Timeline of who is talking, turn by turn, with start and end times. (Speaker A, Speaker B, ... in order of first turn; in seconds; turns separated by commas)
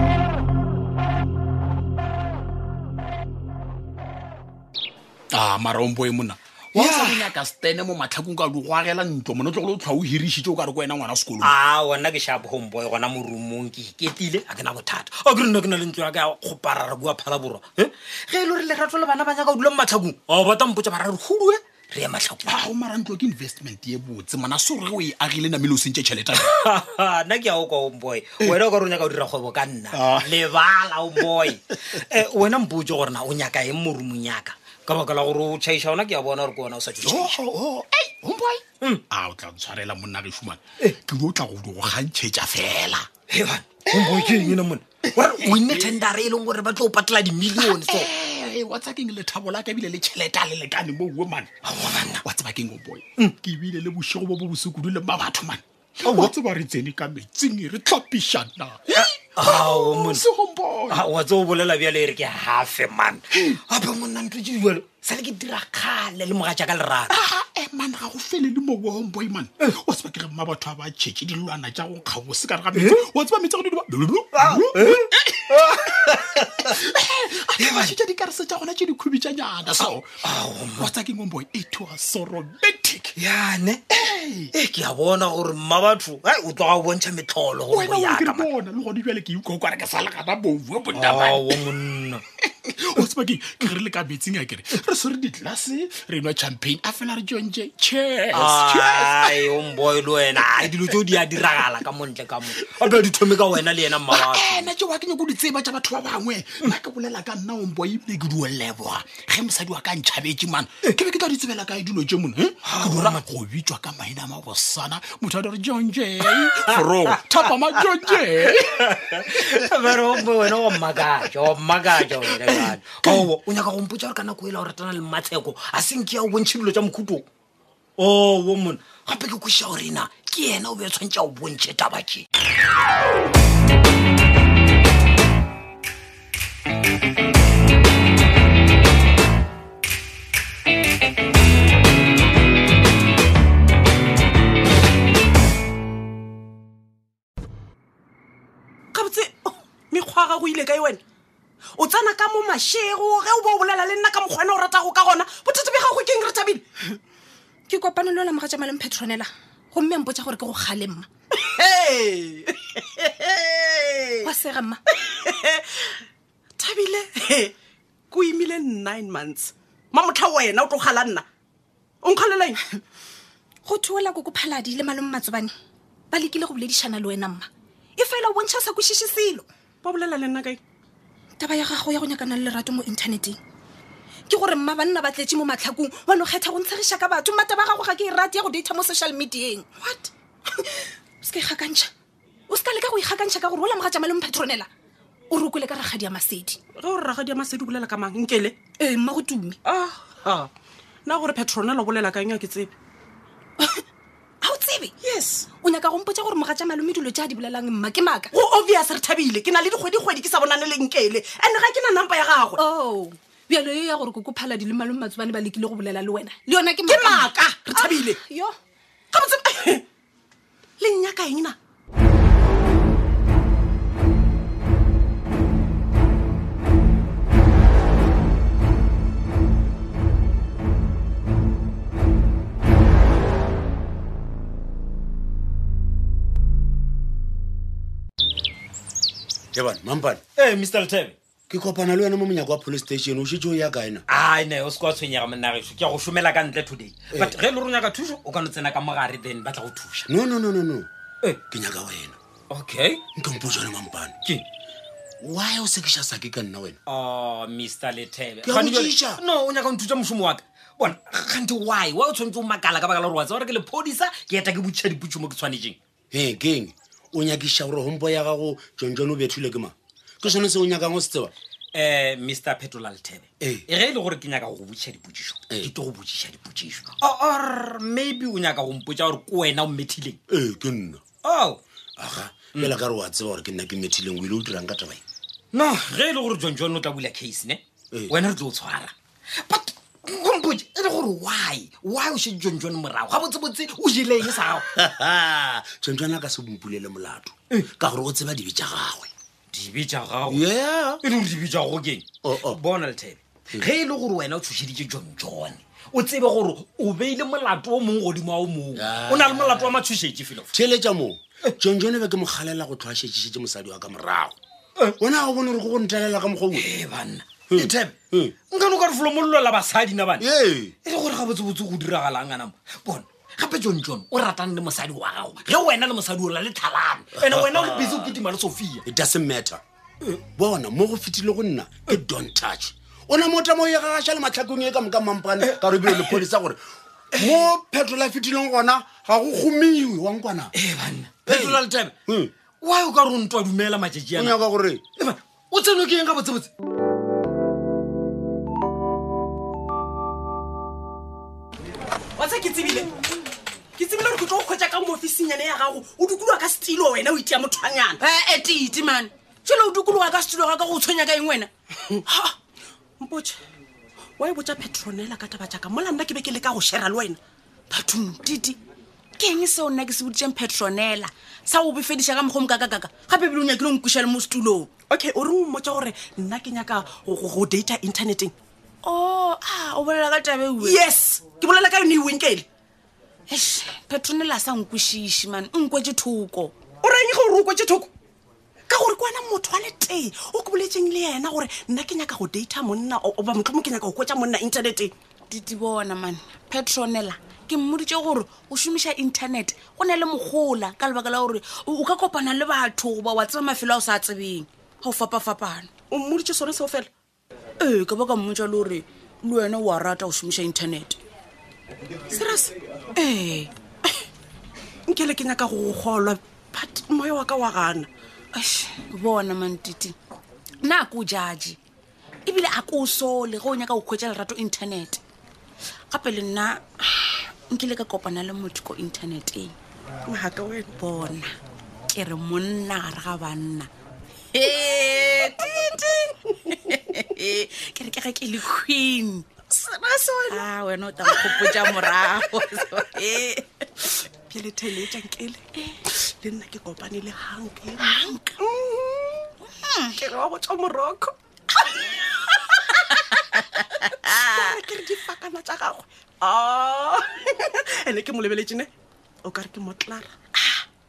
Speaker A: 5.3-11.6, Speaker B: 6.7-7.2, Speaker B: 11.4-22.6, Speaker A: 22.5-26.6, Speaker B: 26.4-37.4, Speaker A: 29.9-30.4, Speaker A: 37.0-43.1, Speaker B: 43.3-48.1, Speaker A: 43.9-44.6, Speaker A: 45.4-45.9, Speaker A: 47.5-51.5, Speaker B: 51.6-52.2, Speaker A: 52.2-61.0, Speaker B: 56.0-56.3, Speaker B: 59.0-60.2, Speaker B: 60.9-67.2, Speaker A: 67.1-80.1, Speaker B: 74.4-76.7, Speaker B: 77.6-78.0, Speaker B: 79.8-80.9, Speaker A: 80.6-83.2, Speaker B: 83.2-88.5, Speaker A: 84.0-84.5, Speaker A: 87.7-91.7, Speaker B: 90.9-92.2, Speaker A: 92.4-99.5, Speaker B: 98.3-104.7, Speaker A: 104.1-118.9, Speaker B: 112.6-113.2, Speaker B: 116.2-117.4, Speaker B: 118.1-127.3, Speaker A: 122.1-123.3, Speaker B: 128.0-132.3, Speaker C: 148.9-151.0, Speaker C: 151.8-157.0, Speaker D: 157.7-161.1, Speaker C: 161.3-164.3, Speaker D: 164.2-164.8, Speaker C: 164.9-165.7, Speaker C: 166.6-167.5, Speaker C: 168.1-171.2, Speaker C: 172.0-172.6, Speaker D: 173.7-175.5, Speaker D: 176.1-179.5, Speaker C: 179.8-180.6, Speaker D: 181.4-183.4, Speaker D: 184.3-191.9, Speaker D: 192.5-194.7, Speaker D: 195.3-196.6, Speaker C: 196.8-198.6, Speaker D: 198.8-199.6, Speaker C: 199.7-200.5, Speaker C: 201.1-202.7, Speaker D: 204.4-204.9, Speaker C: 205.0-205.4, Speaker D: 205.5-208.3, Speaker C: 208.3-212.6, Speaker D: 212.6-218.6, Speaker C: 216.9-218.2, Speaker C: 219.1-219.8, Speaker C: 220.8-221.6, Speaker E: 239.5-240.2, Speaker B: 240.4-241.2, Speaker E: 241.5-244.1, Speaker B: 244.1-250.1, Speaker E: 247.1-247.4, Speaker E: 250.1-250.9, Speaker E: 251.5-252.2, Speaker B: 252.5-253.0, Speaker E: 253.2-254.2, Speaker E: 255.2-256.8, Speaker B: 256.9-265.8, Speaker E: 258.4-259.2, Speaker E: 266.1-271.3, Speaker B: 271.7-280.2, Speaker E: 280.3-281.0, Speaker B: 281.2-281.6, Speaker E: 282.0-285.0, Speaker B: 285.5-294.7, Speaker E: 294.6-299.1, Speaker B: 299.5-300.4, Speaker E: 300.3-301.0, Speaker B: 301.0-310.5, Speaker E: 302.2-302.6, Speaker E: 308.8-309.8, Speaker E: 310.5-314.4, Speaker E: 315.0-316.7, Speaker B: 316.5-317.9, Speaker E: 317.5-318.4, Speaker B: 318.5-320.2, Speaker E: 320.2-320.8, Speaker B: 320.9-328.9, Speaker E: 327.8-328.1, Speaker E: 328.9-329.6, Speaker E: 330.3-340.5, Speaker B: 335.4-336.2, Speaker B: 337.2-337.5, Speaker B: 340.6-341.9, Speaker E: 341.3-342.3, Speaker B: 342.6-344.4, Speaker E: 344.1-344.8, Speaker B: 345.0-346.5, Speaker C: 352.2-352.9, Speaker C: 353.8-358.0, Speaker F: 358.0-361.5, Speaker C: 363.0-363.4, Speaker C: 364.2-367.2, Speaker F: 367.7-368.6, Speaker F: 369.2-374.7, Speaker C: 374.9-378.3, Speaker F: 378.8-380.9, Speaker C: 380.6-382.4, Speaker F: 383.3-386.5, Speaker C: 386.8-387.9, Speaker C: 388.7-394.9, Speaker F: 395.3-405.7, Speaker C: 405.9-406.9, Speaker F: 407.6-411.0, Speaker C: 412.1-412.5, Speaker F: 412.9-413.5, Speaker C: 414.9-417.9, Speaker F: 418.4-419.9, Speaker F: 420.6-421.6, Speaker F: 422.3-425.0, Speaker F: 425.9-429.6, Speaker C: 430.1-430.7, Speaker F: 430.7-431.4, Speaker F: 431.9-433.7, Speaker F: 434.3-439.5, Speaker C: 439.5-440.4, Speaker F: 440.2-443.9, Speaker C: 441.1-442.0, Speaker C: 444.3-449.3, Speaker F: 447.8-448.4, Speaker F: 449.5-450.0, Speaker C: 450.0-451.1, Speaker C: 452.0-452.6, Speaker F: 452.7-454.6, Speaker C: 454.1-458.7, Speaker C: 459.2-460.1, Speaker F: 460.4-460.6